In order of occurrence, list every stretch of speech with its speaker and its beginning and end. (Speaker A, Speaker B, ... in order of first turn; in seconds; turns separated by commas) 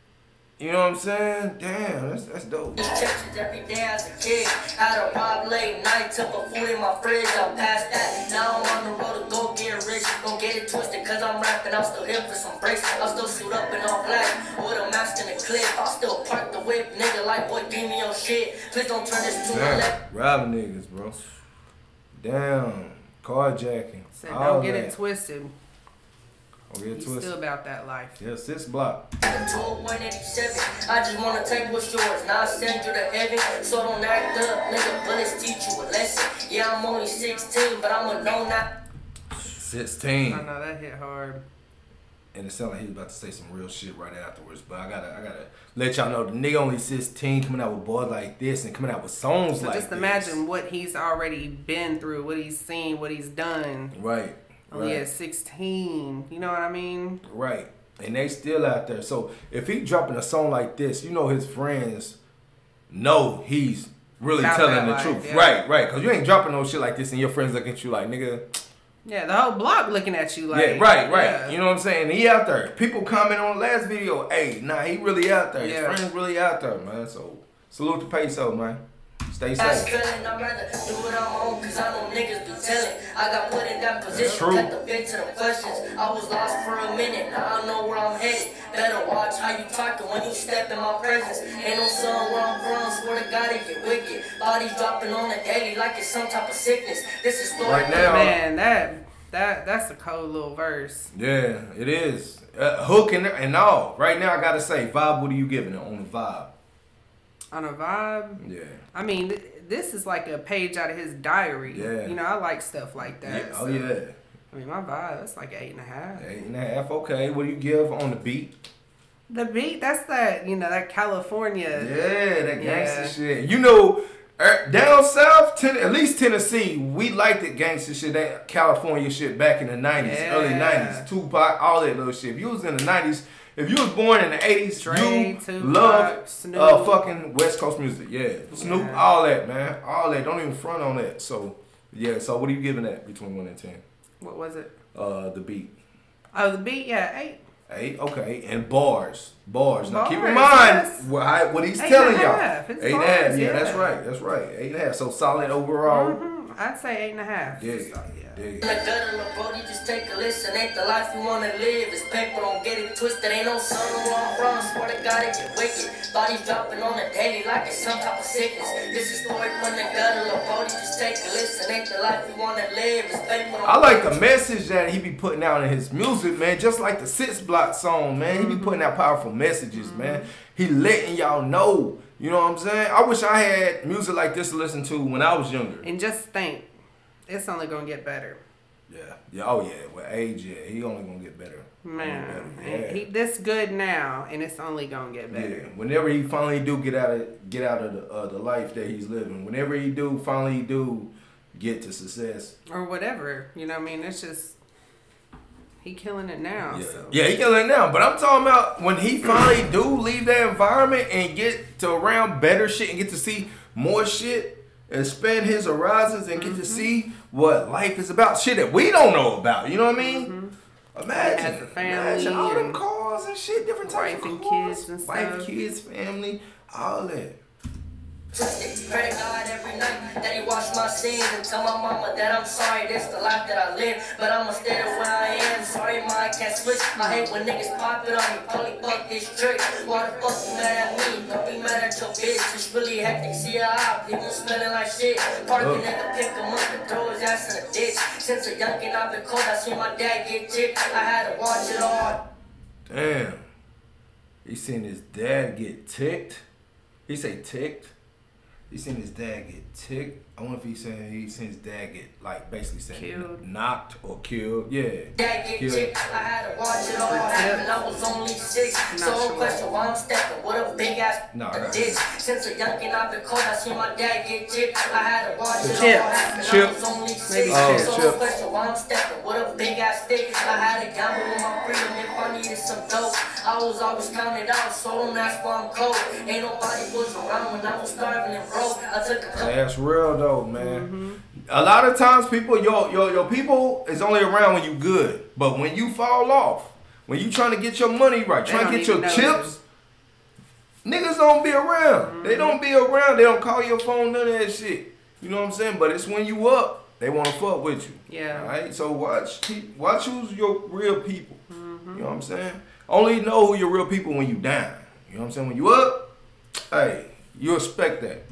Speaker A: 0.6-2.8, Speaker B: 2.8-19.9, Speaker A: 19.5-21.2, Speaker A: 22.1-24.9, Speaker C: 24.1-25.5, Speaker A: 26.7-27.3, Speaker C: 26.9-28.2, Speaker A: 28.2-29.1, Speaker B: 29.2-38.7, Speaker A: 39.4-40.5, Speaker C: 40.2-41.4, Speaker A: 42.3-50.4, Speaker C: 49.6-53.9, Speaker A: 53.9-55.0, Speaker C: 54.7-57.2, Speaker A: 57.2-62.2, Speaker A: 62.9-68.4, Speaker C: 64.4-65.5, Speaker C: 69.0-71.6, Speaker A: 70.5-79.9, Speaker C: 75.6-76.0, Speaker B: 79.6-98.2, Speaker A: 84.1-84.7, Speaker A: 97.6-98.4, Speaker C: 97.9-101.1, Speaker A: 101.1-106.5, Speaker C: 107.5-108.4, Speaker A: 108.4-108.8, Speaker C: 108.9-114.0, Speaker A: 111.7-112.2, Speaker A: 113.2-114.1, Speaker C: 114.5-116.2, Speaker A: 116.2-118.5, Speaker C: 119.3-122.0, Speaker A: 121.7-143.8, Speaker C: 122.6-123.2, Speaker C: 130.0-131.1, Speaker C: 134.7-137.1, Speaker C: 138.5-139.1, Speaker C: 144.2-144.7, Speaker A: 144.9-145.7, Speaker C: 146.3-147.4, Speaker A: 147.7-156.2, Speaker C: 149.8-151.1, Speaker C: 151.8-153.9, Speaker C: 155.8-158.4, Speaker A: 157.5-158.7, Speaker B: 158.6-174.2, Speaker A: 173.6-185.9, Speaker C: 178.2-178.9, Speaker C: 179.7-180.3, Speaker C: 185.8-186.7, Speaker C: 187.3-188.4, Speaker A: 188.9-193.1, Speaker C: 191.8-195.7, Speaker A: 195.3-202.5, Speaker C: 202.7-204.6, Speaker C: 205.8-207.2, Speaker A: 206.6-220.3, Speaker C: 216.3-216.9, Speaker C: 220.0-220.5, Speaker A: 220.9-227.4, Speaker C: 221.1-222.8, Speaker C: 223.8-225.5, Speaker B: 228.3-252.2, Speaker C: 237.0-237.4, Speaker A: 245.6-245.9, Speaker A: 252.9-253.4, Speaker A: 254.4-256.4, Speaker A: 257.1-257.9, Speaker A: 258.7-265.9, Speaker C: 262.9-263.4, Speaker B: 265.1-289.5, Speaker C: 267.0-267.6, Speaker C: 268.9-269.6, Speaker A: 271.3-272.0, Speaker A: 275.6-276.7, Speaker C: 275.7-276.2, Speaker C: 277.3-278.0, Speaker A: 277.5-278.2, Speaker A: 289.3-290.9, Speaker C: 290.6-291.2, Speaker A: 291.5-299.6, Speaker C: 298.4-299.6, Speaker A: 300.8-311.4, Speaker C: 302.0-302.6, Speaker C: 308.1-308.5, Speaker C: 311.5-312.1, Speaker A: 311.9-316.0, Speaker A: 316.7-318.2